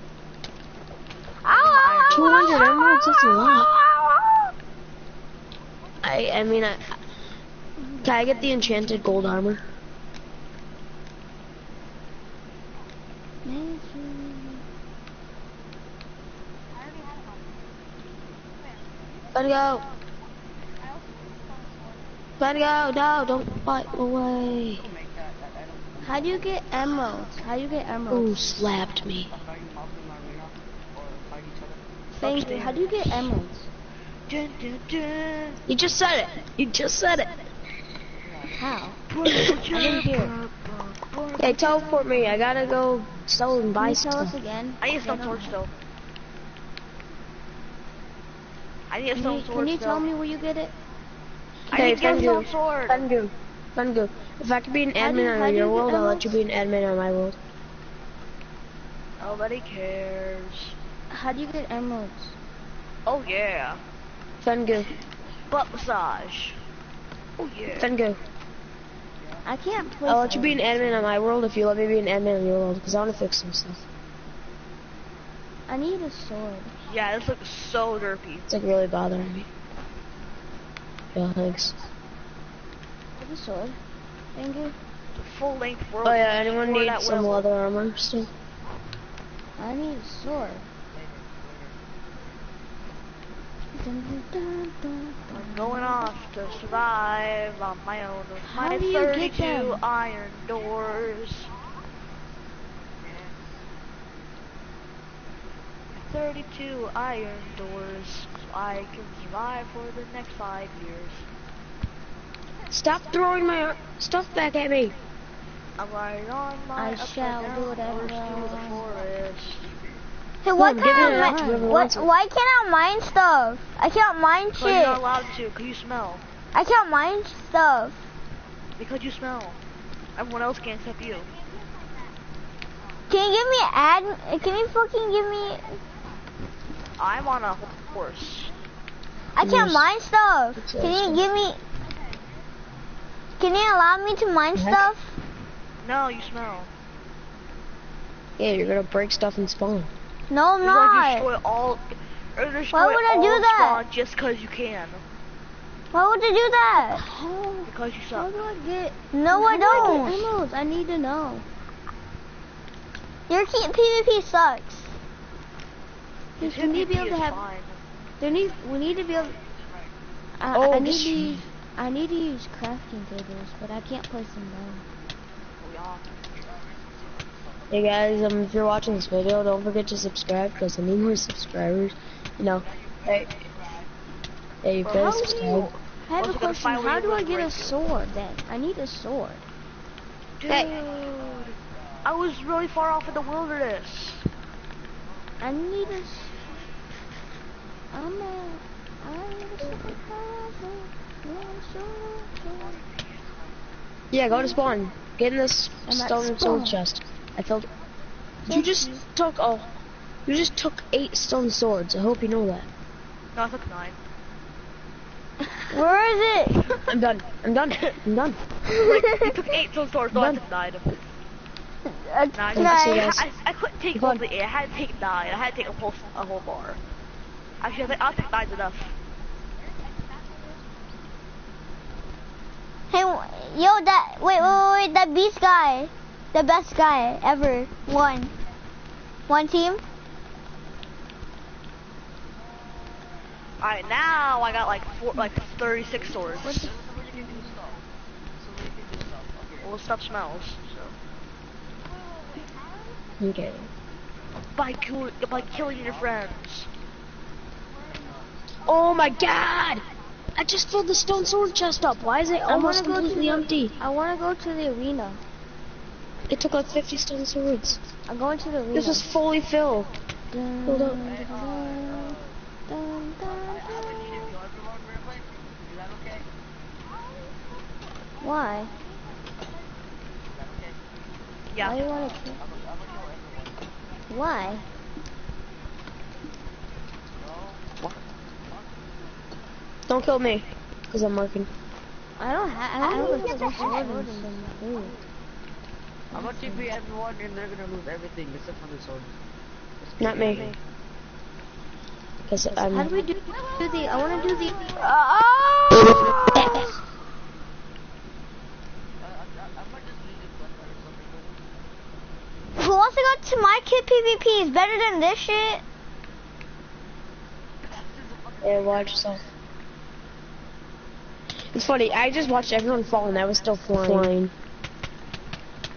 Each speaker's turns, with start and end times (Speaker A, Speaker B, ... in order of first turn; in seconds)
Speaker A: 1.4-4.5, 120.4-125.0, 126.5-128.1, 133.1-135.8, 139.3-141.6, 143.4-145.1, 150.3-151.3, 152.7-153.8, 155.9-157.0, 159.1-160.3, 163.3-164.9, 208.5-209.0, 215.7-216.6, 218.8-219.3, 221.9-223.1, 232.9-238.3, 239.3-239.8, 292.8-294.1, 304.8-306.8, 312.6-315.6
Speaker B: 1.5-2.6, 32.4-32.7, 34.3-35.6, 39.1-41.8, 44.8-45.7, 48.9-50.1, 51.7-53.1, 59.2-60.8, 63.1-63.8, 65.5-66.6, 67.4-67.9, 76.9-78.5, 85.2-87.5, 95.3-101.5, 106.0-111.2, 115.8-119.6, 124.6-126.2, 128.8-129.6, 130.2-131.3, 137.0-138.5, 145.8-146.7, 150.6-155.0, 157.7-158.3, 166.4-167.8, 175.6-176.0, 186.1-187.8, 190.4-194.3, 213.3-214.0, 218.7-221.0, 222.4-226.8, 227.6-228.9, 243.6-246.7, 249.6-250.9, 254.6-256.7, 281.5-281.8, 300.3-300.6
Speaker C: 2.1-3.7, 6.0-7.0, 8.0-9.6, 19.3-19.9, 22.4-24.9, 28.1-29.3, 32.2-32.6, 35.7-37.3, 41.4-44.4, 51.7-57.4, 64.4-64.9, 67.8-68.2, 70.1-73.8, 78.5-79.5, 81.1-81.8, 86.0-88.3, 112.7-115.0, 120.6-122.1, 139.4-139.9, 140.6-141.3, 144.6-144.9, 148.4-149.9, 170.5-171.4, 177.7-183.3, 184.6-185.7, 204.1-207.7, 208.5-209.7, 210.3-212.7, 216.9-218.4, 220.1-220.4, 222.6-223.3, 223.9-224.2, 253.2-253.7, 258.7-259.9, 260.4-263.7, 266.3-267.8, 268.7-269.9, 270.7-271.0, 289.9-291.5, 300.0-300.5, 302.3-302.9, 318.4-319.2, 321.5-324.3
Speaker D: 7.8-9.4, 13.4-14.6, 26.0-28.7, 32.2-33.7, 38.5-40.4, 43.8-45.6, 49.1-50.7, 55.0-56.4, 61.1-62.4, 69.5-71.0, 75.7-76.7, 83.2-83.8, 84.3-84.8, 89.6-90.7, 93.7-96.1, 98.4-99.8, 116.8-118.9, 120.9-121.7, 156.8-161.5, 166.4-167.4, 168.2-169.4, 170.4-174.9, 184.8-189.4, 195.4-196.7, 197.9-202.8, 205.9-206.8, 246.4-247.5, 262.4-265.2, 268.1-269.1, 270.3-274.3, 278.2-278.7, 281.6-282.4, 284.1-284.6, 292.2-295.0, 296.1-296.7, 302.6-304.7, 306.3-306.7
Speaker E: 24.8-26.8, 29.3-32.0, 32.6-32.9, 38.2-38.6, 69.2-69.5, 90.9-91.8, 103.0-103.7, 118.3-119.1, 168.8-170.1, 176.3-177.7, 178.4-178.8, 182.5-183.9, 190.9-192.2, 195.1-196.7, 202.5-203.8, 245.8-249.7, 255.2-256.4, 257.9-258.4, 271.0-272.4, 273.3-276.3, 280.3-280.8, 282.0-283.7, 287.1-288.7, 296.1-299.2, 299.9-300.6, 309.0-311.5, 317.7-319.3, 321.9-324.1